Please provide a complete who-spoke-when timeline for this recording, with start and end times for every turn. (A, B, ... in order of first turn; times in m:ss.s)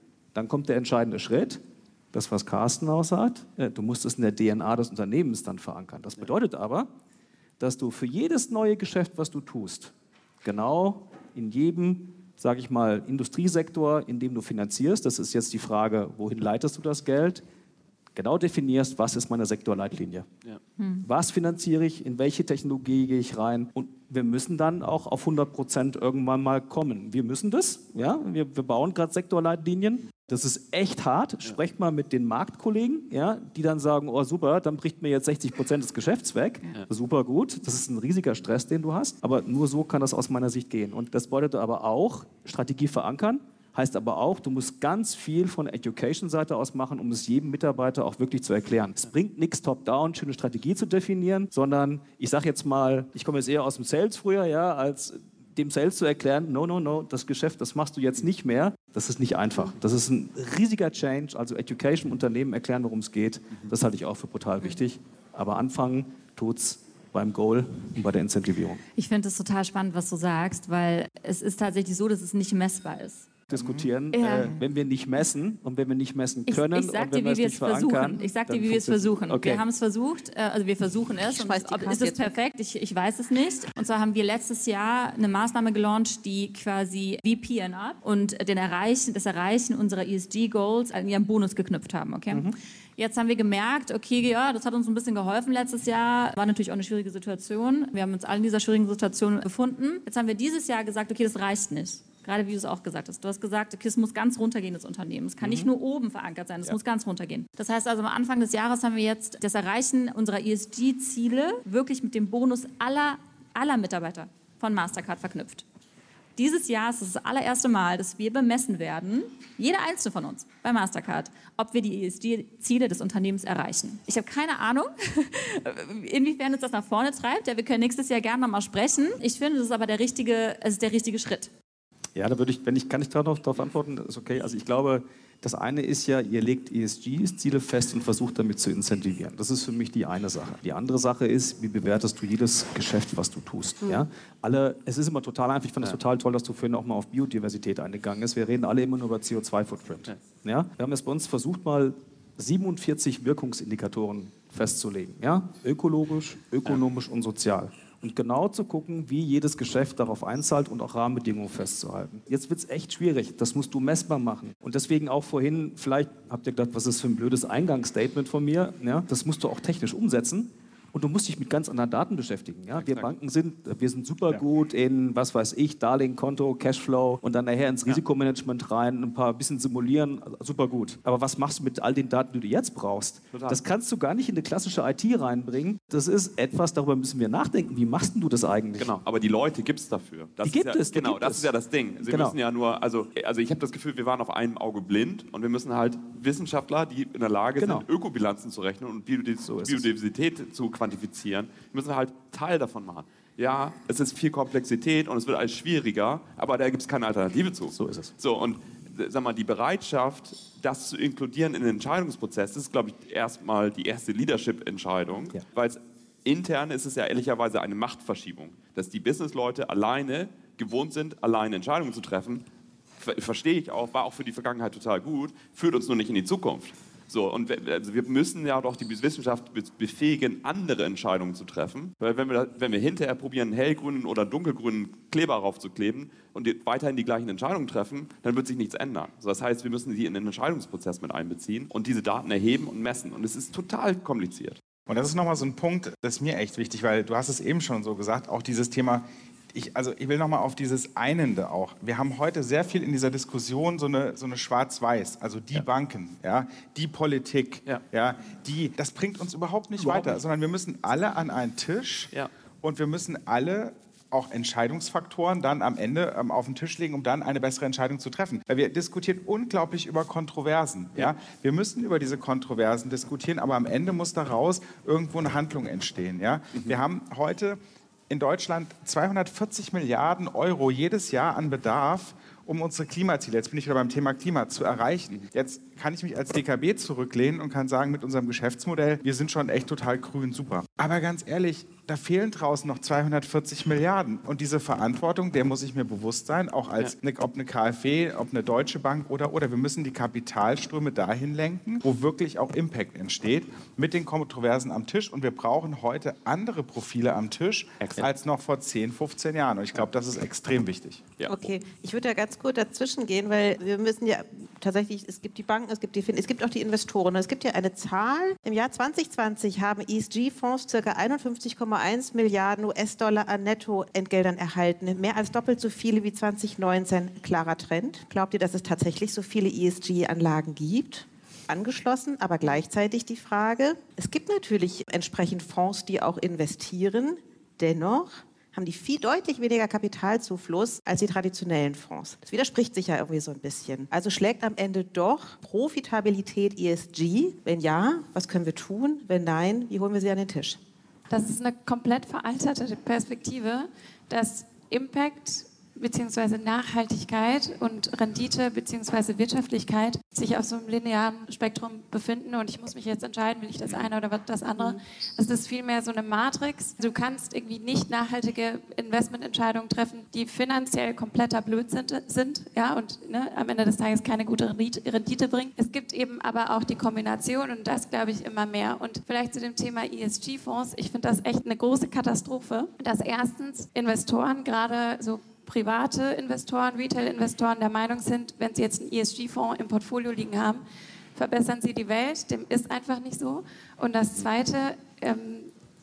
0:00.3-0:01.6 A
0:02.1-0:06.9 A
0:07.6-0:09.9 A
0:10.4-0:17.4 A
0:18.1-0:20.3 A
0:20.8-0:21.0 B
0:21.0-1:08.8 A
1:09.0-1:13.3 B
1:13.5-1:19.6 A
1:14.1-1:14.6 B
1:16.5-1:55.6 B
1:21.2-1:22.3 C
1:32.3-1:32.6 A
1:45.4-1:45.7 A
1:56.4-2:11.5 B
2:12.2-3:08.9 A
2:52.8-2:53.1 D
3:03.3-3:03.6 D
3:08.8-3:42.4 D
3:10.4-3:12.4 A
3:17.6-3:17.9 A
3:19.4-3:19.9 A
3:27.7-3:28.1 A
3:43.0-4:04.6 D
4:04.9-4:22.1 E
4:19.8-4:20.1 D
4:22.6-4:37.6 E
4:38.1-5:11.1 E
5:11.3-5:50.6 C
5:51.1-6:30.6 F
6:31.1-6:35.5 F